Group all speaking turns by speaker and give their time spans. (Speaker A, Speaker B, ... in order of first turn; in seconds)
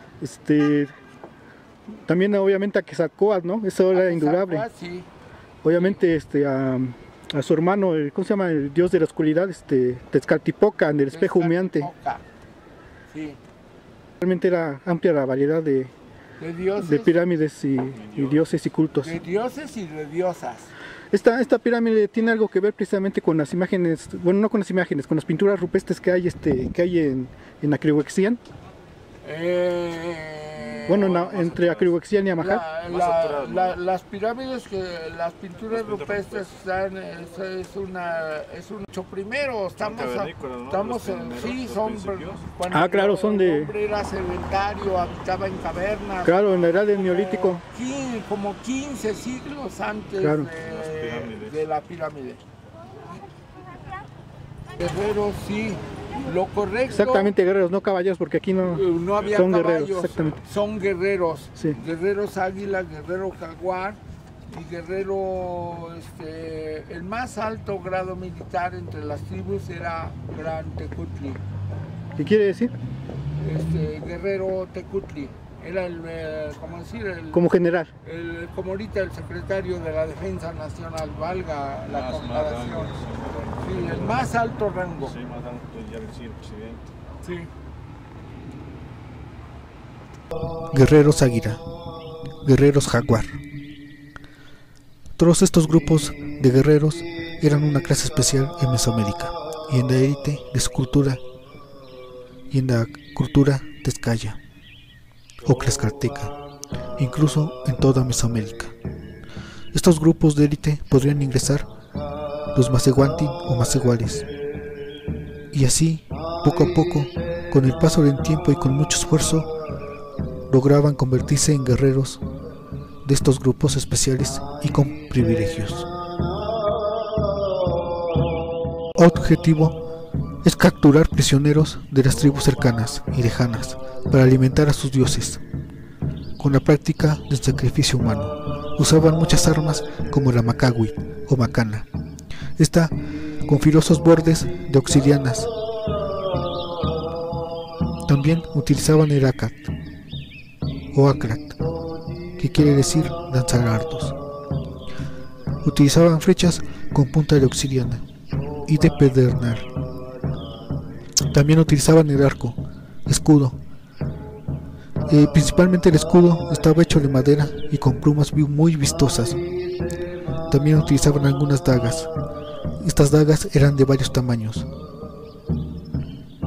Speaker A: 0.2-0.9, 1.9-4.7, 5.6-11.9, 14.2-15.9, 16.8-19.1, 21.1-28.4, 30.9-32.6, 42.7-43.7, 46.2-47.6, 50.2-50.5, 56.9-60.4, 72.2-72.7, 77.3-77.9, 90.7-91.6, 92.4-93.4, 95.2-101.2, 102.5-104.4, 105.4-106.3, 107.0-108.7, 109.7-111.7, 112.5-114.3, 115.5-119.5, 120.5-122.2, 123.0-125.9, 129.0-129.8, 130.4-135.4, 136.4-141.9, 142.6-142.9, 143.5-145.5, 148.1-149.7, 150.9-151.6, 152.4-154.2, 155.6-158.0, 158.7-159.7, 161.3-163.6, 165.1-169.4, 170.5-172.1, 172.8-174.7
Speaker B: 3.9-5.1, 5.7-6.0, 11.1-12.2, 13.1-13.4, 16.4-17.2, 19.0-20.7, 29.2-31.7, 32.4-52.4, 54.8-57.3, 58.7-71.4, 73.4-77.5, 78.0-82.9, 83.6-85.2, 87.2-87.5
Speaker C: 17.9-18.4, 30.6-31.9, 32.9-33.8, 35.7-36.6, 39.8-42.5, 50.6-51.7, 59.2-60.4, 81.9-84.3, 85.0-86.9